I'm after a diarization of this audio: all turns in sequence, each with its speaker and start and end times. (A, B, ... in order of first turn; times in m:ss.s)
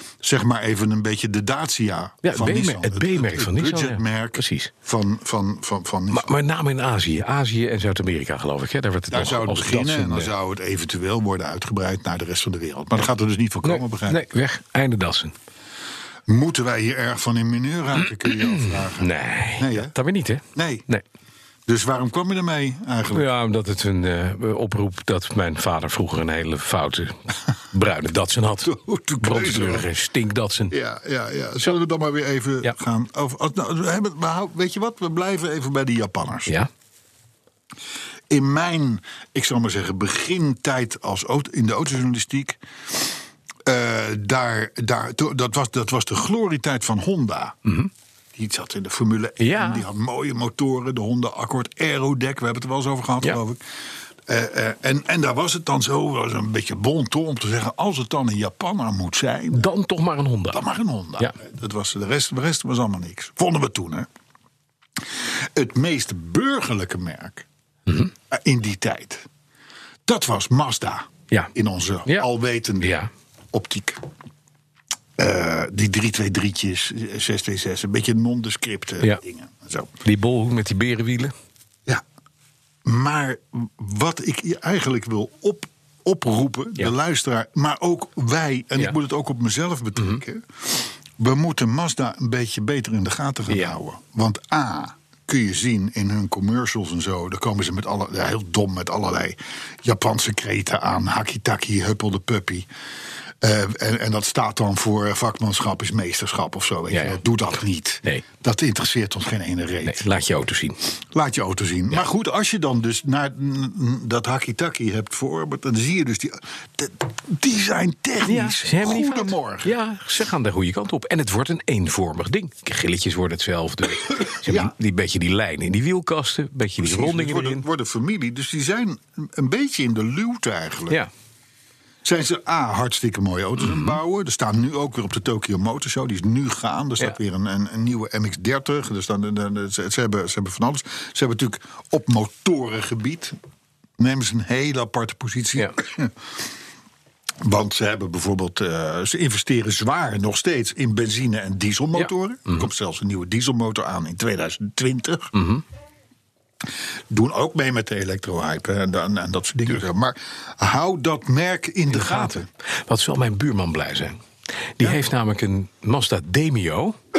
0:00.2-0:06.4 A
0:02.2-0:04.7 B
0:06.1-0:10.3 B
0:09.1-0:14.2 A
0:13.6-0:15.4 B
0:16.3-0:19.9 A
0:18.3-0:21.0 B
0:20.6-0:20.8 A
0:21.7-0:23.3 A
0:23.1-0:30.8 B
0:28.6-0:29.9 A
0:30.7-0:36.5 A
0:38.3-0:42.6 A
0:43.7-0:47.6 A
0:47.6-0:47.9 B
0:48.4-0:53.6 A
0:49.4-0:49.9 B
0:54.3-0:59.7 A
0:59.5-1:00.6 B
1:00.5-1:04.1 A
1:05.6-1:07.5 A
1:08.3-1:09.2 A
1:10.1-1:13.0 A
1:12.8-1:13.1 B
1:13.5-1:14.0 A
1:15.2-1:19.9 A
1:20.0-1:21.3 B
1:22.8-1:42.7 A
1:33.5-1:33.8 B
1:43.4-1:50.0 A
1:46.9-1:47.2 B
1:49.8-1:50.8 B
1:51.1-1:59.8 A
1:58.2-2:07.6 B
2:04.4-2:04.7 A
2:06.8-2:11.0 A
2:12.0-2:23.4 A
2:13.6-2:14.0 B
2:24.0-2:26.2 A
2:27.4-2:35.3 A
2:32.0-2:32.7 B
2:35.3-2:35.6 B
2:37.1-2:42.5 A
2:41.9-2:44.2 B
2:44.8-2:47.0 B